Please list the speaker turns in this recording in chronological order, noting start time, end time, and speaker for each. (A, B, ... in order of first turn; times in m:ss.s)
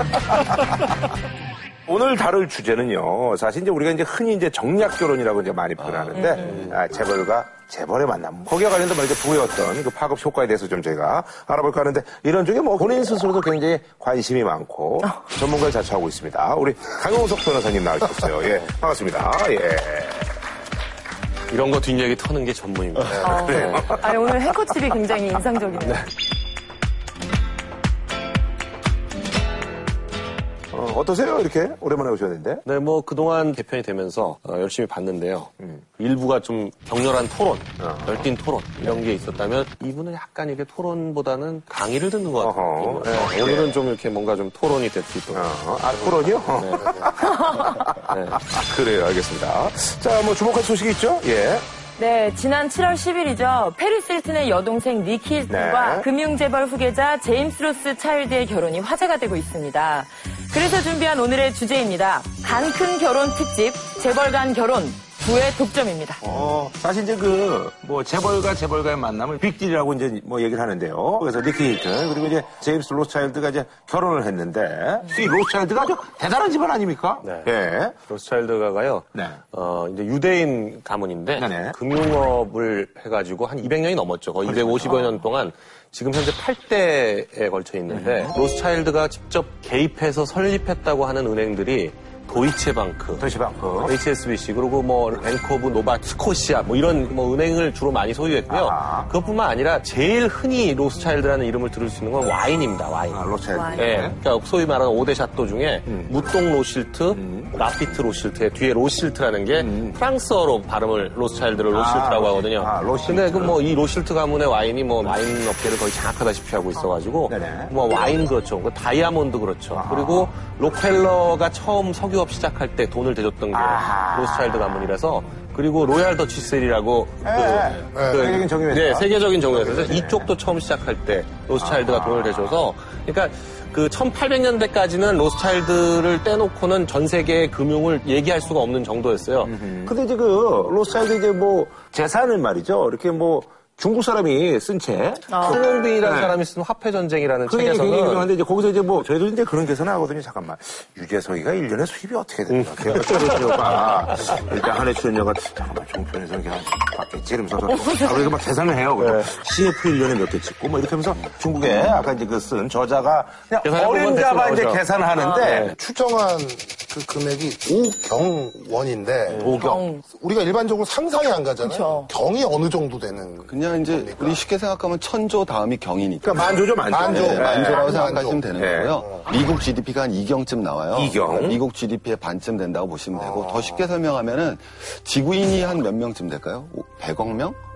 0:01.9-0:20.3 A
0:05.8-0:06.7 B
0:06.2-0:06.5 C
0:21.5-0:23.9 D
0:23.1-0:26.0 C
0:23.3-0:24.1 A
0:30.7-0:32.6 A
0:32.6-0:45.5 D
0:37.8-0:38.2 A
0:42.4-0:43.8 A
0:45.3-0:51.7 A
0:46.6-0:47.1 D
0:47.2-0:47.9 C
0:48.0-0:48.4 D
0:52.0-1:06.2 C
0:55.5-0:56.1 A
1:06.2-1:18.0 A
1:17.2-1:17.5 D
1:18.1-1:33.3 D
1:19.1-1:19.4 A
1:21.4-1:21.8 A
1:24.4-1:25.2 A
1:27.9-1:28.3 A
1:33.2-1:34.0 A
1:33.8-1:43.2 D
1:38.5-1:39.1 A
1:43.1-1:44.2 A
1:43.5-1:43.9 C
1:43.7-2:19.6 D
1:45.9-1:46.1 A
1:47.1-1:47.6 A
1:49.6-1:50.0 A
1:51.7-1:53.6 A
1:57.3-1:57.8 A
1:59.7-2:00.3 A
2:03.5-2:04.8 A
2:07.2-2:10.3 A
2:07.9-2:08.3 E
2:11.6-2:12.6 A
2:19.4-2:25.3 A
2:25.3-2:25.7 C
2:25.3-2:28.3 D
2:26.0-2:26.4 A
2:27.4-2:45.7 A
2:32.5-2:33.7 D
2:39.0-2:39.3 D
2:43.6-2:44.8 D
2:45.2-2:45.6 C
2:45.4-2:45.8 D
2:45.6-2:54.4 E
2:49.3-2:49.8 A
2:49.5-2:50.1 C
2:51.6-2:52.1 C
2:53.5-3:07.6 B
2:56.2-2:57.9 A
2:56.9-2:58.4 E
2:58.6-2:59.0 A
3:00.9-3:01.6 A
3:03.1-3:03.8 E